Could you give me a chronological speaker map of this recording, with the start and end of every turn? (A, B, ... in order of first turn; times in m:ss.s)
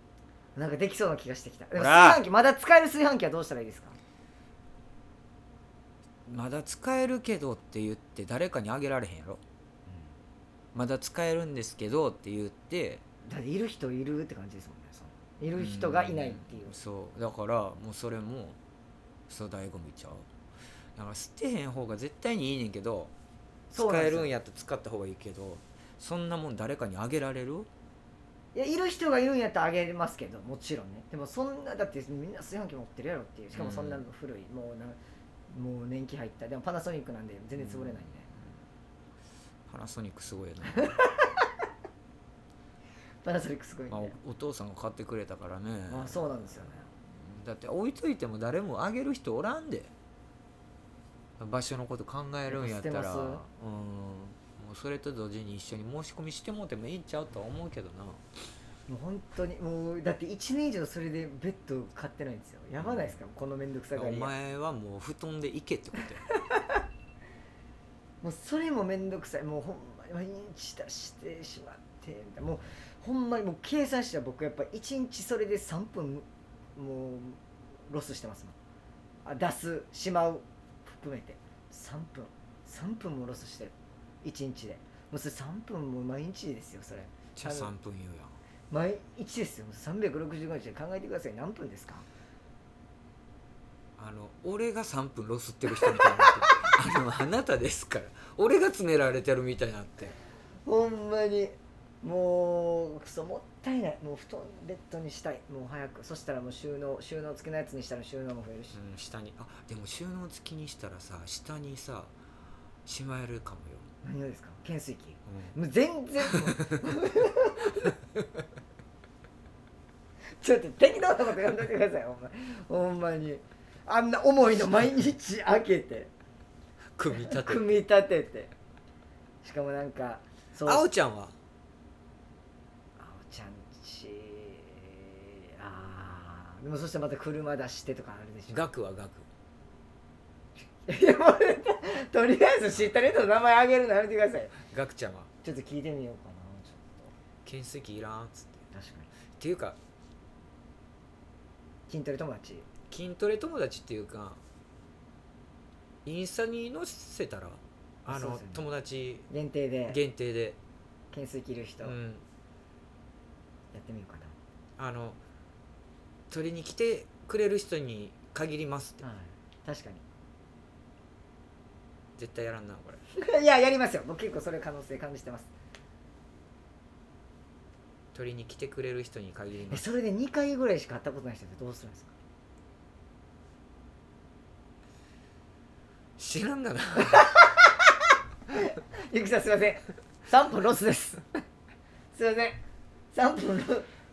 0:00.6-0:04.0 A
0:01.7-0:02.2 B
0:06.3-0:09.4 B
0:10.7-0:13.0 B
0:13.2-0:16.8 A
0:15.6-0:18.6 B
0:19.3-0:20.2 B
0:21.0-0:23.1 B
0:23.7-0:24.3 A
0:23.7-0:27.7 B
0:28.5-0:35.0 A
0:33.5-0:34.0 B
0:35.5-0:38.3 A
0:37.6-0:38.0 B
0:39.7-0:41.0 B
0:40.7-0:41.4 A
0:43.2-0:44.2 A
0:43.9-0:49.9 B
0:45.9-0:46.9 A
0:51.4-0:58.2 B
0:52.5-0:53.4 A
0:58.9-1:04.3 A
1:02.8-1:03.1 B
1:03.9-1:06.2 B
1:08.2-1:16.2 A
1:16.8-1:18.5 A
1:19.2-1:27.7 A
1:27.4-1:28.4 B
1:28.7-1:32.0 A
1:34.0-1:40.1 B
1:35.8-1:36.6 A
1:40.6-1:48.8 A
1:48.7-1:52.1 B
1:52.8-1:53.9 B
1:54.0-1:57.9 A
1:56.2-1:56.8 B
2:00.4-2:06.1 A
2:07.0-2:07.8 B
2:07.1-2:08.5 A
2:09.4-2:10.9 A
2:10.6-2:11.3 B
2:13.0-2:18.6 A
2:18.5-2:19.3 B
2:20.9-2:24.6 A
2:24.6-2:25.3 B
2:25.4-2:27.1 A
2:27.4-2:28.6 B
2:28.7-2:29.1 A
2:29.4-2:29.8 B
2:31.9-2:32.6 A
2:32.9-2:34.4 B
2:36.0-2:39.3 B
2:38.1-2:38.6 A
2:39.3-2:40.0 A
2:39.9-2:40.6 B
2:41.1-2:42.0 A
2:41.8-2:42.2 B
2:43.7-2:44.3 A
2:44.8-2:45.2 B
2:46.3-2:49.0 B
2:49.0-2:50.0 A
2:52.2-2:53.0 B
2:53.1-2:55.5 A
2:58.1-2:59.8 B
2:59.7-3:02.1 A
3:06.2-3:07.3 B
3:07.0-3:07.8 A
3:08.5-3:11.2 A
3:12.1-3:12.6 A
3:13.1-3:13.9 A